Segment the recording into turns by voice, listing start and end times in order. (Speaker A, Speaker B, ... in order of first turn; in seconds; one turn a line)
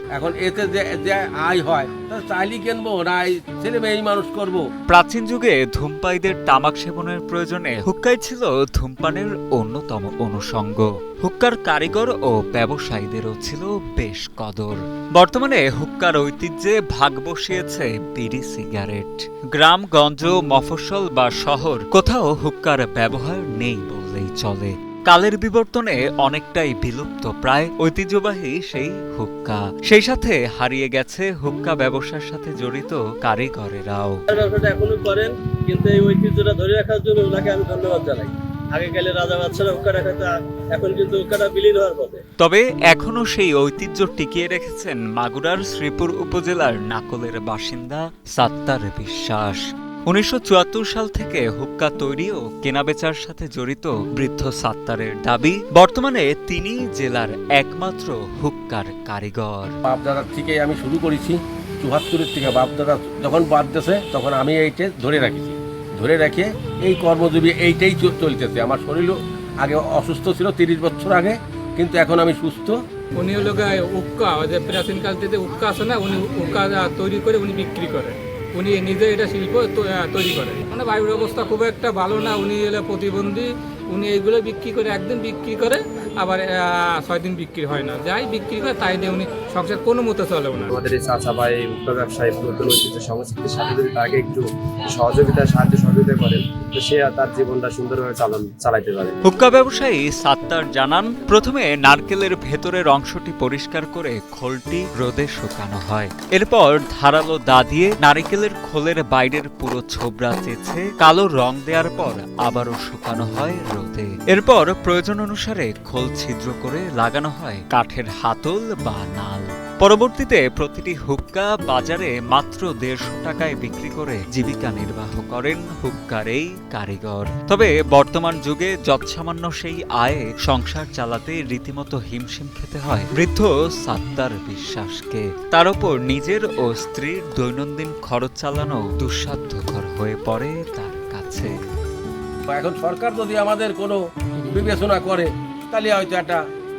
Speaker A: 0.2-4.6
Speaker B: 4.9-34.2
Speaker C: 34.3-42.2
Speaker B: 42.4-59.8
Speaker A: 59.9-72.8
Speaker D: 73.2-90.7
Speaker E: 90.7-99.2
Speaker B: 99.3-141.5
Speaker A: 142.5-146.4